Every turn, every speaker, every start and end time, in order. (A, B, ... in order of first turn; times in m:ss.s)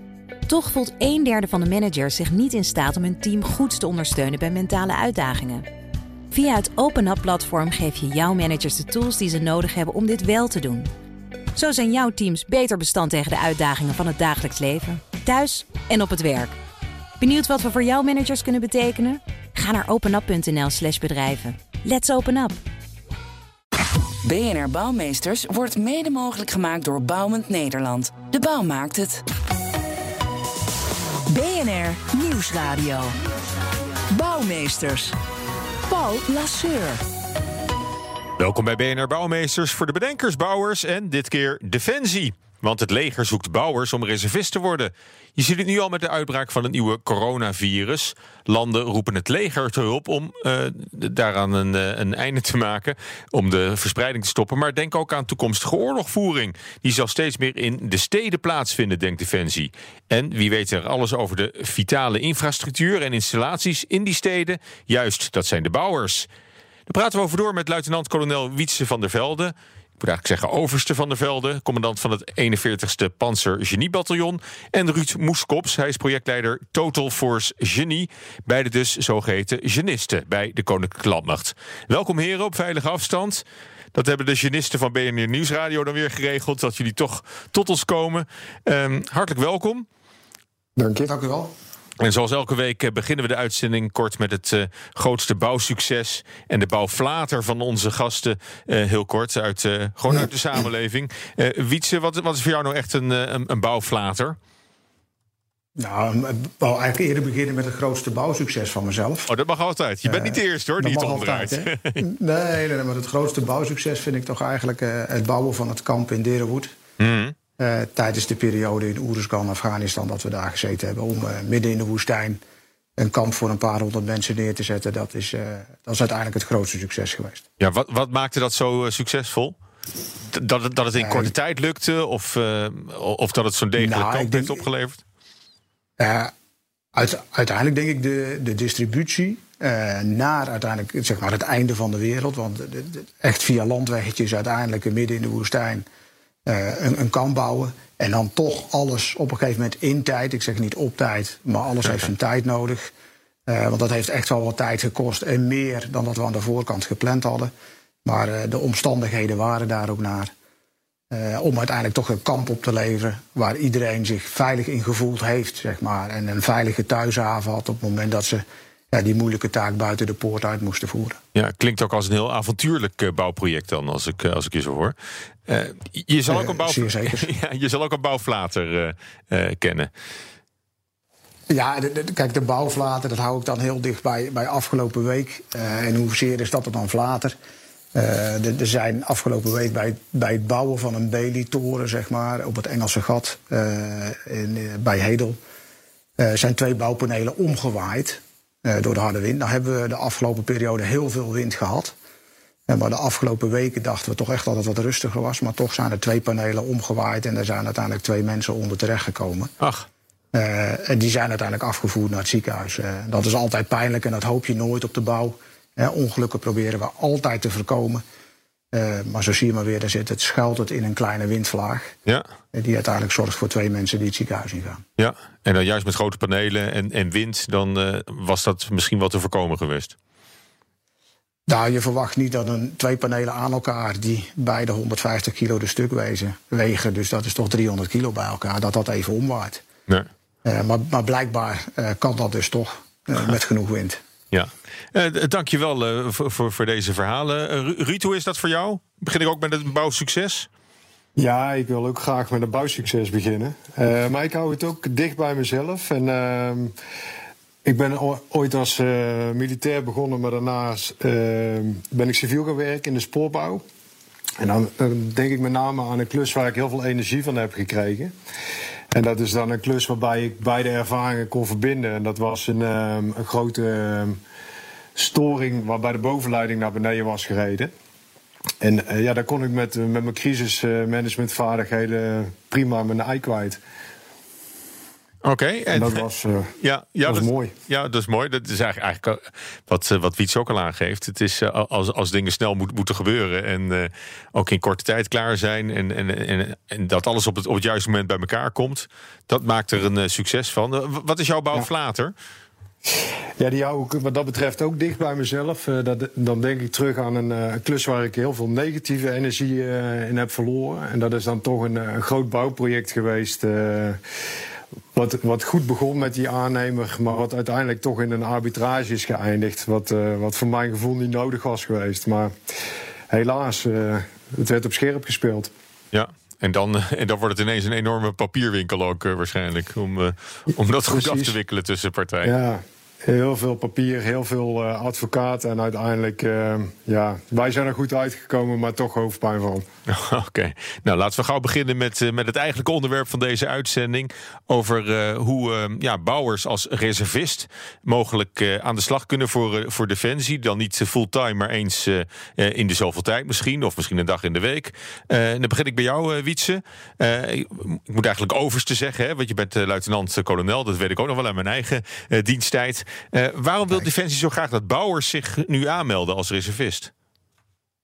0:00.5-0:05.7 A
0:06.3-0:10.9 A
0:11.6-0:16.6 A
0:17.2-0:22.6 A
0:24.2-0:29.2 B
0:31.3-0:33.2 C
0:34.1-0:35.2 C
0:35.9-0:37.0 C
0:38.4-1:06.3 D
1:06.9-1:29.9 D
1:30.8-1:31.1 E
1:30.9-1:31.5 F
1:32.0-1:44.4 D
1:45.8-1:49.3 F
1:49.3-1:52.0 D
1:50.0-1:56.8 F
1:57.0-1:57.4 D
1:57.6-2:02.4 F
2:03.0-2:07.4 F
2:07.6-2:09.6 D
2:10.3-2:15.0 D
2:11.0-2:11.3 F
2:13.8-2:14.6 F
2:16.0-2:16.3 F
2:16.9-2:25.9 F
2:26.5-2:32.9 F
2:33.5-2:37.5 F
2:38.0-2:40.3 F
2:41.1-2:51.2 F
2:51.4-2:55.0 D
2:55.5-2:59.9 D
2:56.3-2:57.3 F
3:01.5-3:07.4 F
3:07.9-3:15.4 F
3:16.2-3:22.0 F
3:22.7-3:29.5 F
3:29.6-3:29.9 D
3:30.3-3:38.0 F
3:38.7-3:42.0 F
3:42.5-3:44.8 F
3:45.0-3:50.0 D
3:51.5-3:59.6 F
4:00.4-4:04.0 F
4:04.3-4:10.5 D
4:11.2-4:16.7 E
4:17.6-4:23.6 E
4:24.4-4:28.1 E
4:28.9-4:34.2 E
4:35.0-4:37.7 E
4:38.6-4:43.6 E
4:45.2-4:46.0 D
4:45.7-4:46.6 E
4:46.6-5:02.1 D
4:47.1-4:47.5 E
5:02.9-5:14.0 E
5:14.9-5:22.4 E
5:23.1-5:25.5 E
5:25.9-5:32.3 D
5:30.9-5:31.3 E
5:32.2-5:39.6 E
5:39.9-6:06.9 D